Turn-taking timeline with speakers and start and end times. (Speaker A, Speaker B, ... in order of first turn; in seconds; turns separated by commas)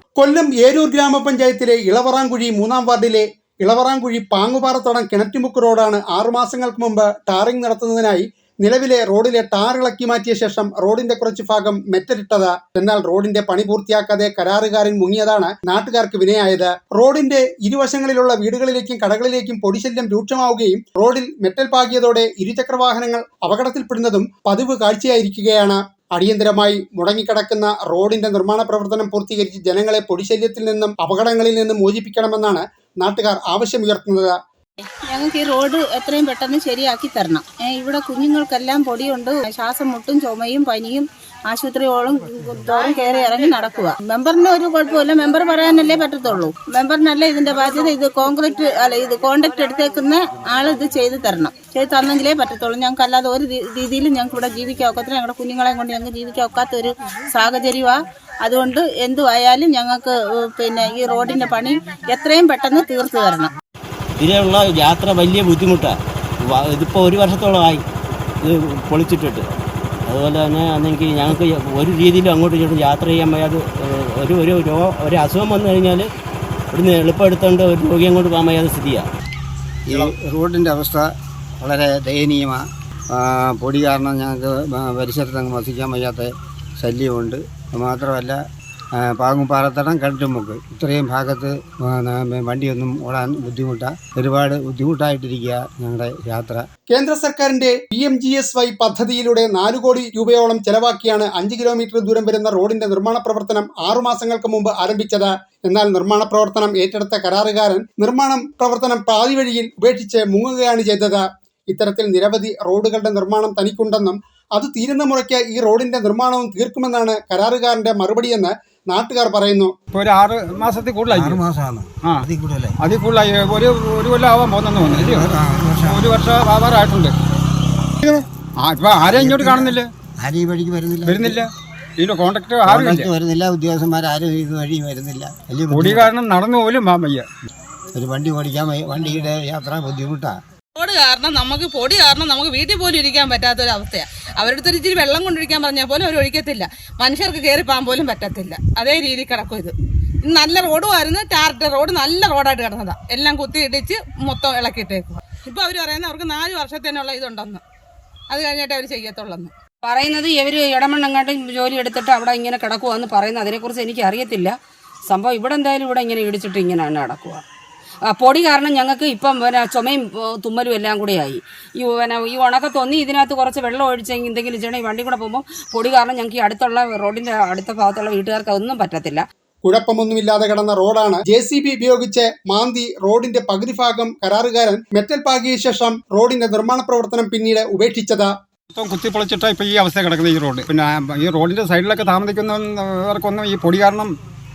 Speaker A: 0.2-34.4, Speaker B: 35.1-63.5, Speaker C: 64.2-67.8, Speaker C: 68.4-69.5, Speaker C: 70.0-76.1, Speaker C: 76.7-79.1, Speaker D: 79.9-81.1, Speaker D: 81.6-88.4, Speaker D: 89.0-96.6, Speaker A: 96.9-119.7, Speaker E: 119.9-121.4, Speaker D: 121.1-122.8, Speaker E: 122.8-125.3, Speaker D: 124.8-126.1, Speaker E: 125.8-127.1, Speaker E: 128.0-129.9, Speaker D: 129.0-131.4, Speaker E: 131.1-133.1, Speaker D: 132.7-136.1, Speaker E: 135.7-137.2, Speaker D: 137.9-140.4, Speaker F: 140.8-157.6, Speaker F: 158.3-159.5, Speaker G: 159.8-164.5, Speaker G: 165.1-167.4, Speaker G: 168.1-179.2, Speaker A: 179.6-188.3, Speaker E: 188.7-194.1